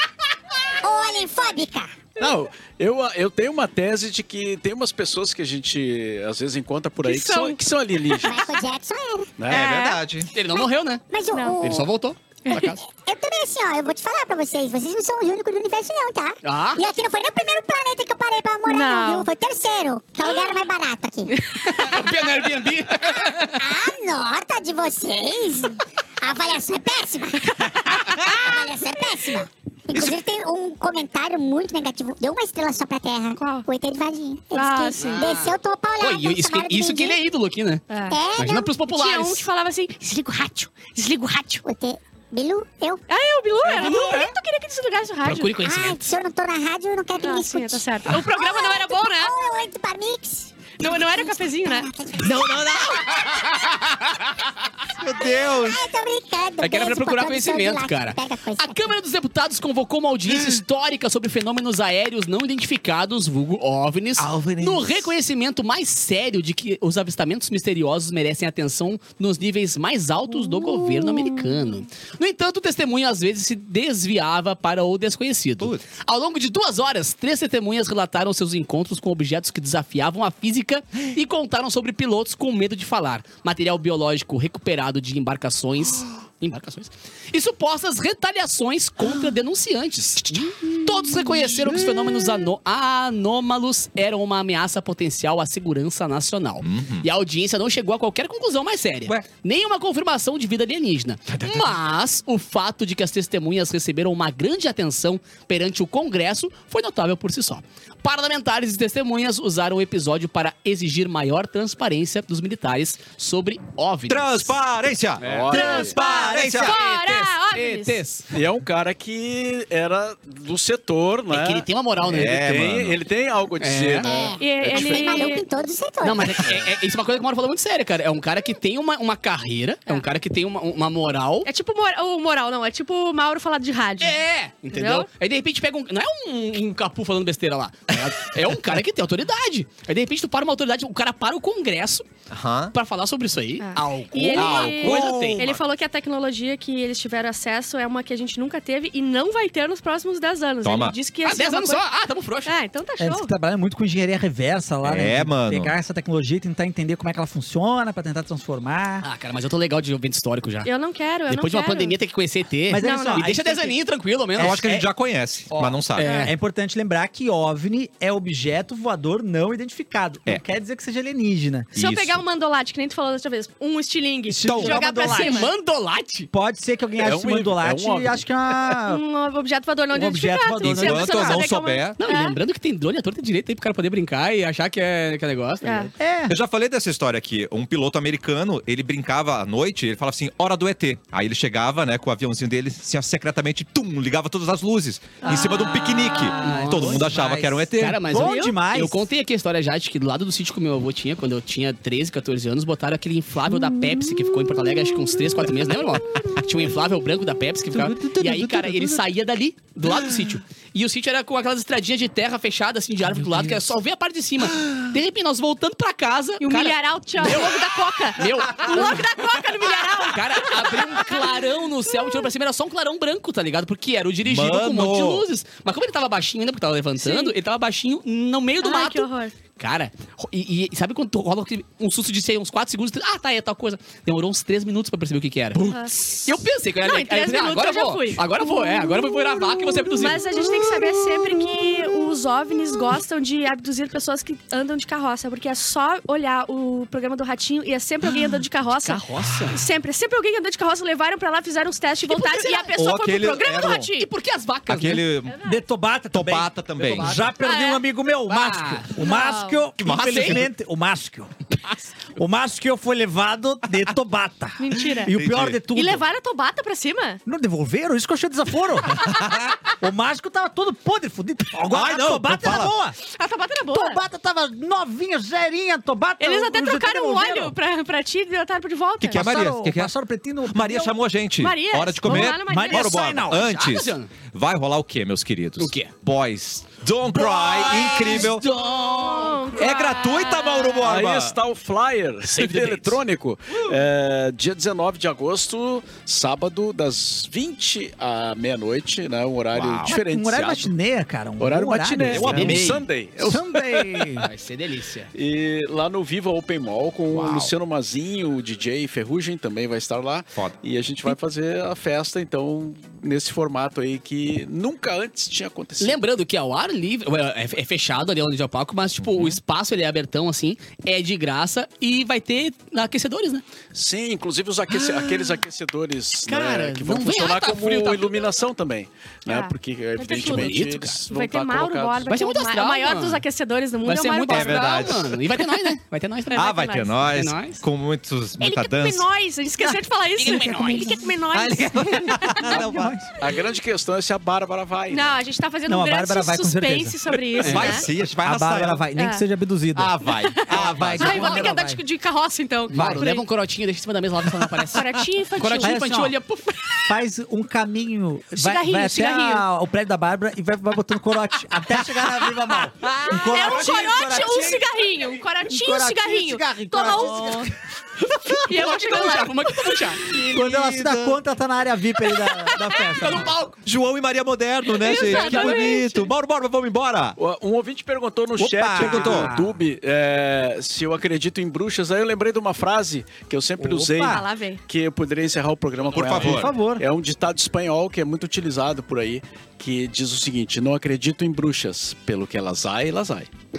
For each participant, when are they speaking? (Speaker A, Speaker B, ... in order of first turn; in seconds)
Speaker A: 0.8-2.1, 8.2-9.4, 11.1-11.9, 12.5-21.4, 23.6-37.2, 38.1-38.7, 41.6-43.0, 45.6-53.7, 55.2-59.0, 124.0-126.5
Speaker B: 2.2-8.4, 9.4-9.8, 115.2-116.0, 118.3-125.2, 177.0-178.2, 290.8-300.7, 301.4-303.5, 305.1-316.0, 323.7-332.1, 343.2-345.1, 377.2-393.3
Speaker C: 7.0-8.3, 9.5-10.0, 11.3-11.6, 12.4-12.7, 18.7-19.3, 21.3-22.0, 27.9-28.4, 33.4-33.6, 34.5-35.4, 37.9-38.2, 38.9-41.6, 43.1-45.5, 47.2-49.3, 50.8-51.9, 115.5-118.0, 124.4-125.5, 131.4-135.1, 143.6-151.8, 152.4-153.3, 160.6-162.0, 162.8-163.4, 166.0-166.3, 171.7-175.5, 178.9-182.3, 185.6-185.9, 195.2-196.0, 198.2-198.5, 216.4-221.3, 221.9-222.2, 227.0-227.3, 228.6-229.3, 235.6-236.3, 236.8-254.1, 255.2-255.6, 257.4-257.8, 259.0-259.6, 264.6-265.1, 265.7-267.2, 273.1-274.0, 276.2-279.3, 281.4-283.0, 287.8-288.2, 288.9-290.8, 329.2-334.9, 336.3-337.0, 338.4-342.6, 344.9-347.9, 348.9-349.2, 350.1-353.2, 354.7-355.8, 358.4-359.4, 363.1-367.4, 368.4-369.7, 372.2-372.8, 374.7-376.1, 384.0-384.6
Speaker D: 9.4-10.3, 52.2-53.3, 55.0-55.8, 64.2-65.0, 75.6-75.8, 90.3-90.9, 91.5-91.9, 96.6-97.1, 101.4-101.7, 114.1-116.7, 122.1-123.0, 142.3-142.7, 144.3-145.6, 150.6-150.9, 154.8-155.7, 164.4-166.1, 171.8-172.2, 174.4-174.8, 180.6-181.9, 186.3-198.0, 224.2-225.2, 252.8-253.9, 254.7-255.4, 256.1-257.3, 259.8-260.5, 265.1-265.6, 269.0-269.6, 271.7-272.7, 279.0-279.9, 280.4-288.4, 289.6-291.4, 299.5-299.9, 302.1-302.9, 307.1-307.5, 319.0-319.4, 334.3-335.2, 336.3-339.1, 341.3-343.0, 347.4-348.8, 349.7-351.5, 370.1-371.2, 373.6-377.2, 378.6-379.3, 385.9-386.5
Speaker E: 10.3-11.0, 11.6-12.8, 16.4-16.8, 21.6-23.6, 35.0-39.5, 43.6-44.3, 45.2-46.1, 53.3-54.2, 56.6-114.5, 116.6-118.3, 121.3-122.4, 123.6-124.1, 126.0-131.5, 134.0-142.1, 142.7-145.5, 151.2-152.5, 159.0-160.7, 161.3-164.6, 165.5-166.3, 175.1-176.3, 182.0-185.9, 196.1-197.1, 197.8-217.6, 218.1-229.1, 229.6-240.2, 248.8-249.6, 252.0-252.7, 254.0-255.1, 256.8-257.2, 258.3-258.9, 259.9-260.4, 283.3-284.1, 285.6-285.9, 287.1-289.6, 292.3-293.0, 302.3-302.8, 304.2-305.1, 315.8-323.4, 326.2-328.3, 330.1-331.0, 332.1-333.2, 333.8-336.4, 337.1-337.6, 340.2-341.1, 347.4-347.8, 352.7-354.8, 355.4-356.8, 362.8-363.4, 367.1-367.5, 368.5-370.1, 372.9-373.6, 374.8-375.7, 385.8-386.4
Speaker F: 115.5-116.8, 144.8-145.5, 153.0-159.1, 162.7-163.8, 164.3-164.9, 166.1-171.7, 174.3-175.5, 176.3-179.0, 179.9-181.4, 186.0-186.4, 195.3-199.1, 203.6-204.1, 207.7-209.1, 240.4-241.4, 255.4-261.3, 262.1-266.0, 267.2-273.0, 273.7-277.5, 279.1-280.9, 282.0-283.6, 299.9-304.3, 342.1-343.1, 345.7-349.9, 350.5-351.8, 352.7-353.1, 355.4-356.1, 356.8-364.9, 365.4-367.5, 368.1-368.4, 370.1-373.3, 378.4-379.5, 383.6-384.2, 386.2-386.8